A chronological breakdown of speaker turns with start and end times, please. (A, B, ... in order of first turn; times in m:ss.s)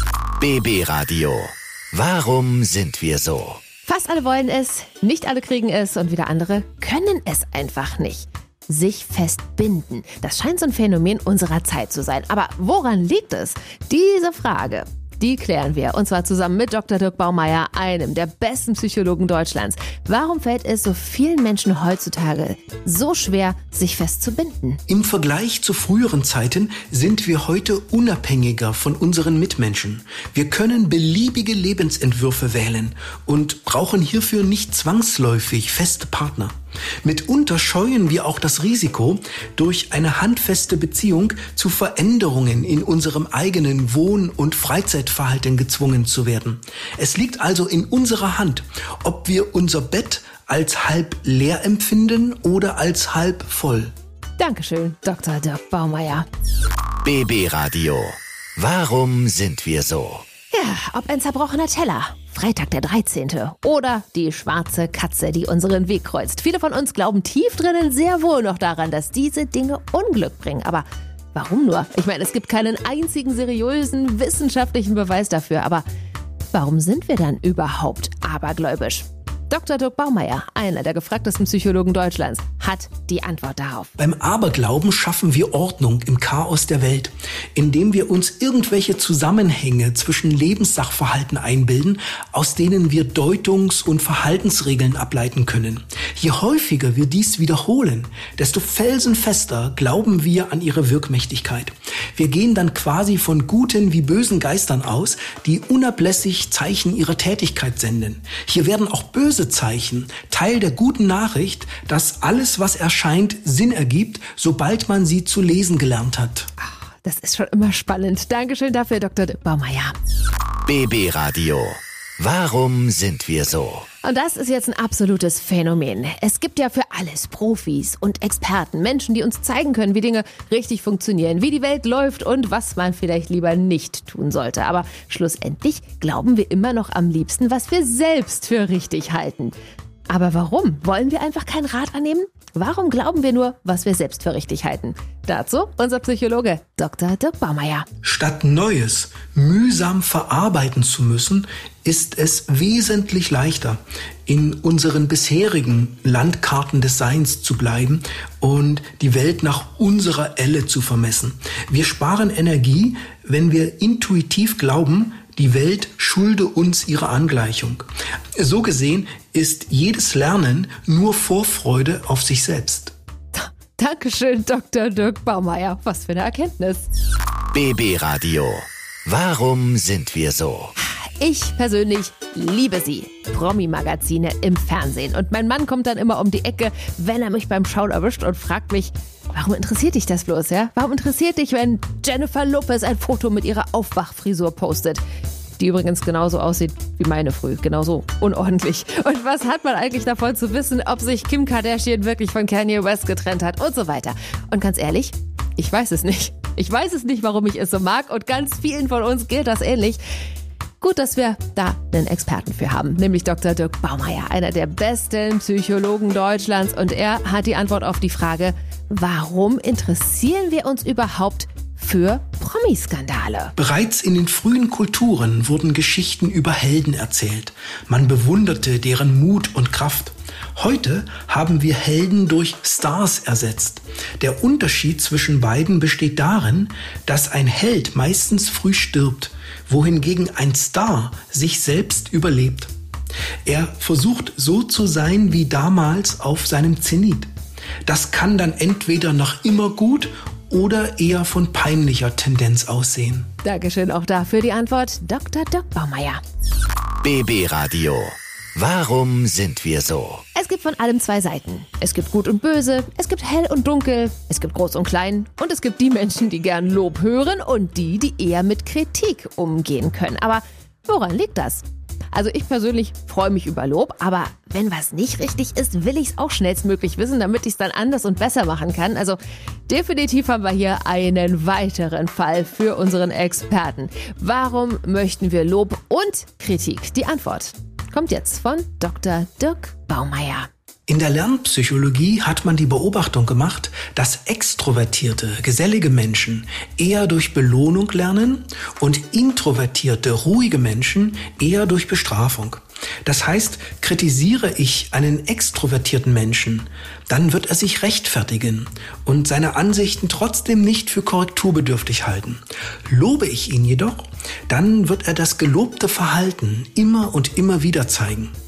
0:00.4-0:03.6 A
0:03.8-0:24.8 B
0:24.9-0:53.9 C
0:54.4-0:56.2 B
0:57.0-1:00.2 A
1:00.5-1:15.8 B
1:16.5-1:23.9 B
1:24.0-1:56.5 C
1:56.6-1:59.9 B
2:00.6-2:03.9 A
2:04.0-2:19.5 B
2:20.1-2:27.9 B
2:28.0-2:52.9 C
2:53.3-2:56.9 B
2:57.5-3:00.7 A
3:00.8-3:15.0 B
3:15.6-3:30.0 B
3:30.8-3:43.5 B
3:43.6-4:02.7 C
4:03.4-4:07.3 C
4:07.8-4:13.3 C
4:13.4-4:16.2 B
4:17.0-4:20.2 A
4:20.3-4:50.5 B
4:50.9-5:18.3 C